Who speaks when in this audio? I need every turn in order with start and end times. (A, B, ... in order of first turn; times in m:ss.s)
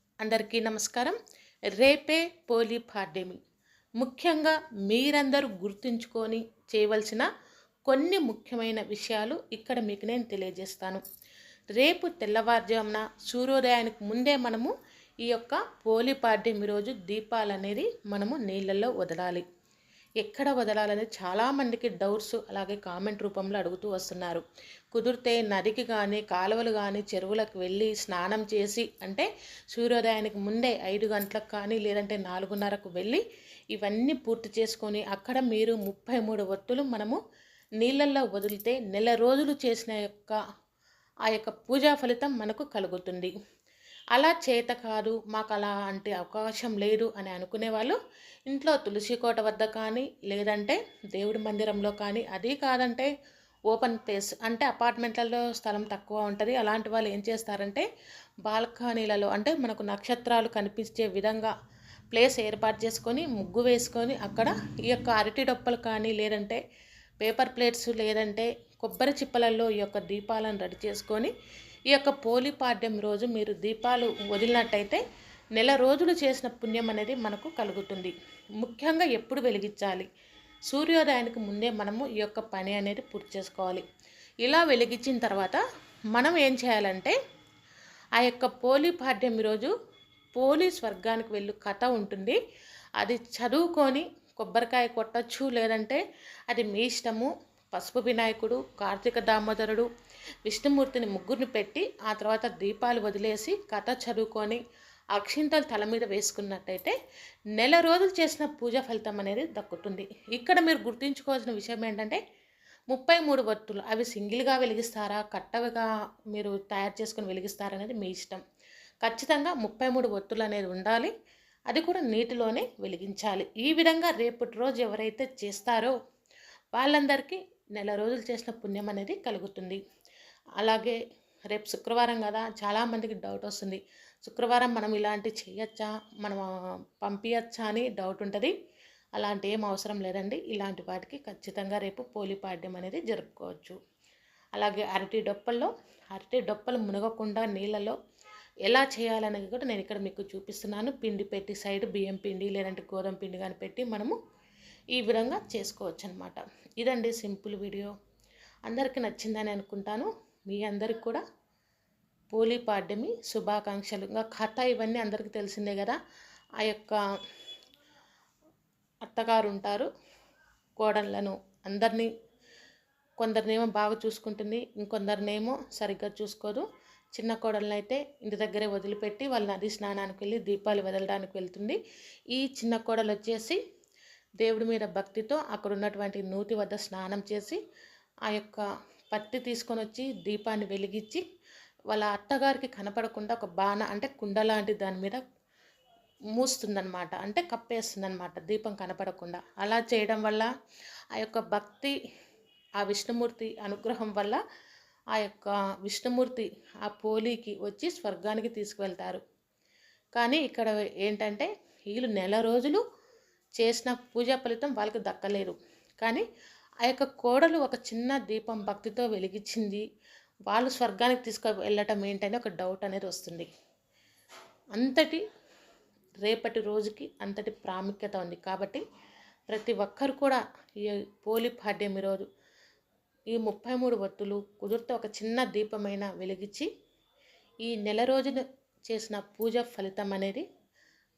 0:00.2-0:01.2 A
0:01.8-0:03.4 A
0:04.0-0:07.3 A
0:07.9-0:11.0 A
0:11.7-0:14.7 A
0:15.2-0:19.4 A
0:20.2-0:24.4 A
0:24.9-0:33.2 A
0:33.7-0:37.2 A
0:37.8-0:40.4 A
0:41.3-0:43.3 A
0:44.2-0:53.1 A
0:53.7-0:57.8 A
0:58.5-1:01.5 A
1:02.1-1:06.6 A
1:07.2-1:11.3 A
1:11.9-1:15.0 A
1:15.6-1:20.1 A
1:20.7-1:23.8 A
1:24.4-1:25.6 A
1:26.1-1:27.2 A
1:28.2-1:29.7 A
1:30.4-1:32.4 A
1:33.0-1:39.9 A
1:40.5-1:44.6 A
1:45.1-1:47.0 A
1:47.6-1:52.2 A
1:52.9-1:58.4 A
1:59.0-2:01.1 A
2:01.7-2:05.9 A
2:06.7-2:09.8 A
2:10.6-2:11.0 A
2:11.5-2:16.5 A
2:17.0-2:18.5 A
2:19.2-2:23.8 A
2:24.6-2:28.0 A
2:28.7-2:34.2 A
2:35.0-2:37.9 A
2:38.7-2:41.2 A
2:42.3-2:46.0 A
2:46.6-2:47.0 A
2:49.1-2:49.9 A
2:50.8-2:52.1 A
2:53.2-2:56.6 A
2:57.2-3:01.8 A
3:02.3-3:03.6 A
3:04.4-3:07.6 A
3:08.3-3:11.2 A
3:11.9-3:15.2 A
3:16.4-3:20.5 A
3:21.2-3:21.9 A
3:22.8-3:24.4 A
3:25.2-3:29.2 A
3:30.2-3:32.8 A
3:33.6-3:36.2 A
3:36.8-3:39.8 A
3:40.5-3:43.5 A
3:44.8-3:45.2 A
3:46.2-3:48.8 A
3:49.5-3:52.2 A
3:53.3-3:56.7 A
3:57.6-4:00.4 A